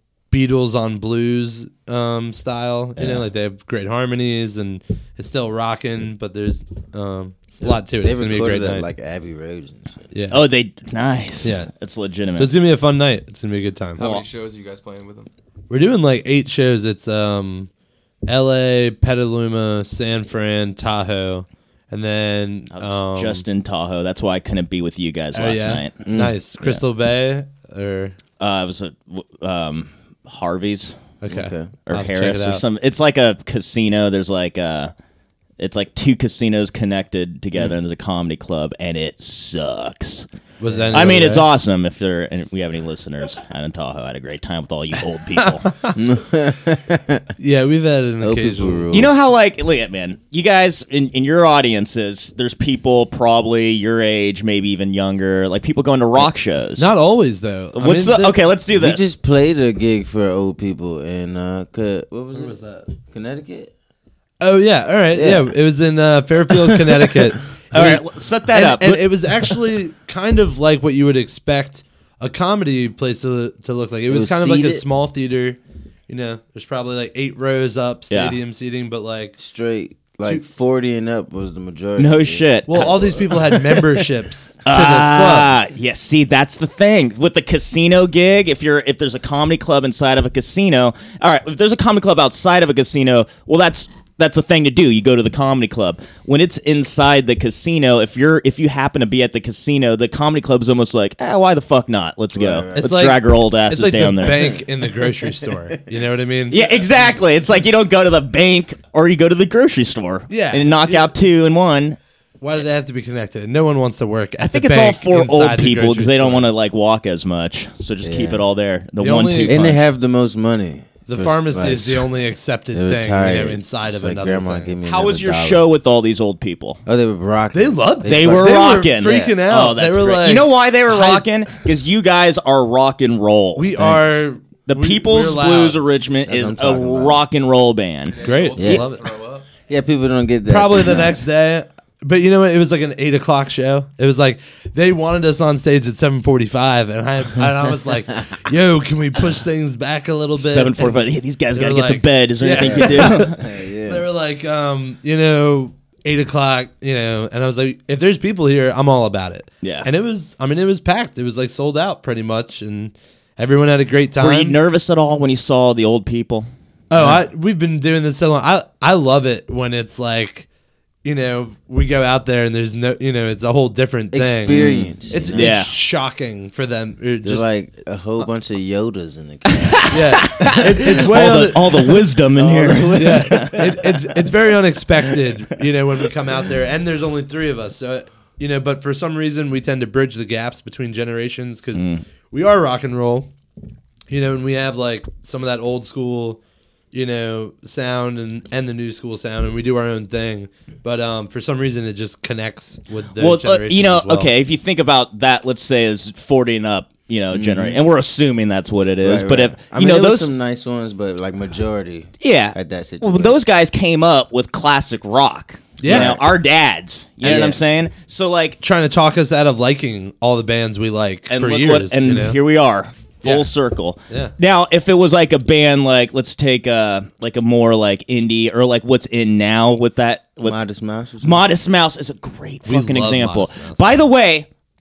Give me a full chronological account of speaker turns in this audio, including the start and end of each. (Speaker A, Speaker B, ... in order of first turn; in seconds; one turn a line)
Speaker A: 0.3-8.9
Speaker B: 3.0-3.2
Speaker C: 7.6-10.1
Speaker A: 10.1-10.4
Speaker B: 10.3-12.5
Speaker A: 11.4-11.7
Speaker A: 12.3-14.1
Speaker D: 14.0-15.3
Speaker A: 15.7-17.7
Speaker A: 18.3-23.4
Speaker B: 22.7-26.1
Speaker A: 25.3-28.2
Speaker C: 26.0-26.3
Speaker B: 28.4-31.0
Speaker A: 31.2-32.6
Speaker C: 31.3-31.7
Speaker B: 31.9-34.9
Speaker B: 35.6-40.3
Speaker A: 40.6-41.5
Speaker C: 40.7-41.2
Speaker B: 40.9-45.7
Speaker A: 45.6-45.9
Speaker C: 45.9-47.3
Speaker A: 47.4-48.9
Speaker C: 48.2-49.1
Speaker B: 48.9-56.9
Speaker A: 56.8-58.4
Speaker B: 57.8-59.0
Speaker C: 58.7-63.7
Speaker A: 62.3-62.9
Speaker A: 64.4-79.4
Speaker C: 65.1-65.5
Speaker B: 67.7-69.5
Speaker C: 74.1-74.8
Speaker B: 78.1-78.3
Speaker C: 79.4-83.6
Speaker B: 82.0-83.6
Speaker A: 82.7-85.5
Speaker B: 84.7-104.5
Speaker C: 102.3-102.9
Speaker A: 102.7-106.8
Speaker C: 104.3-105.8
Speaker B: 106.5-112.0
Speaker A: 110.3-111.1
Speaker A: 112.4-116.5
Speaker B: 114.4-119.8
Speaker C: 118.0-118.4
Speaker A: 119.0-119.7
Speaker C: 119.5-122.1
Speaker A: 121.0-124.7
Speaker C: 122.7-125.7
Speaker B: 124.8-126.8
Speaker C: 126.8-129.3
Speaker A: 127.5-131.5
Speaker B: 128.0-133.9
Speaker A: 133.6-135.8
Speaker B: 134.7-138.2
Speaker C: 136.2-137.2
Speaker D: 138.1-139.5
Speaker A: 138.2-139.0
Speaker C: 138.5-138.9
Speaker C: 139.7-141.2
Speaker A: 140.5-151.0
Speaker B: 150.4-153.4
Speaker A: 151.5-164.6
Speaker C: 152.6-154.0
Speaker B: 159.6-159.9
Speaker B: 164.2-166.5
Speaker A: 166.9-170.5
Speaker A: 171.0-177.5
Speaker C: 174.1-175.6
Speaker B: 174.5-175.7
Speaker C: 177.2-180.9
Speaker B: 179.5-183.7
Speaker A: 179.9-182.0
Speaker C: 182.3-183.9
Speaker A: 182.9-193.3
Speaker B: 191.7-192.0
Speaker A: 194.1-196.4
Speaker A: 196.9-204.3
Speaker B: 203.2-210.3
Speaker C: 207.3-207.8
Speaker C: 209.0-213.4
Speaker B: 212.2-218.6
Speaker A: 215.8-216.2
Speaker C: 215.8-216.2
Speaker C: 217.2-217.6
Speaker A: 218.6-222.4
Speaker B: 221.3-230.6
Speaker A: 223.2-223.5
Speaker C: 230.4-231.4
Speaker B: 231.2-234.5
Speaker A: 232.7-234.0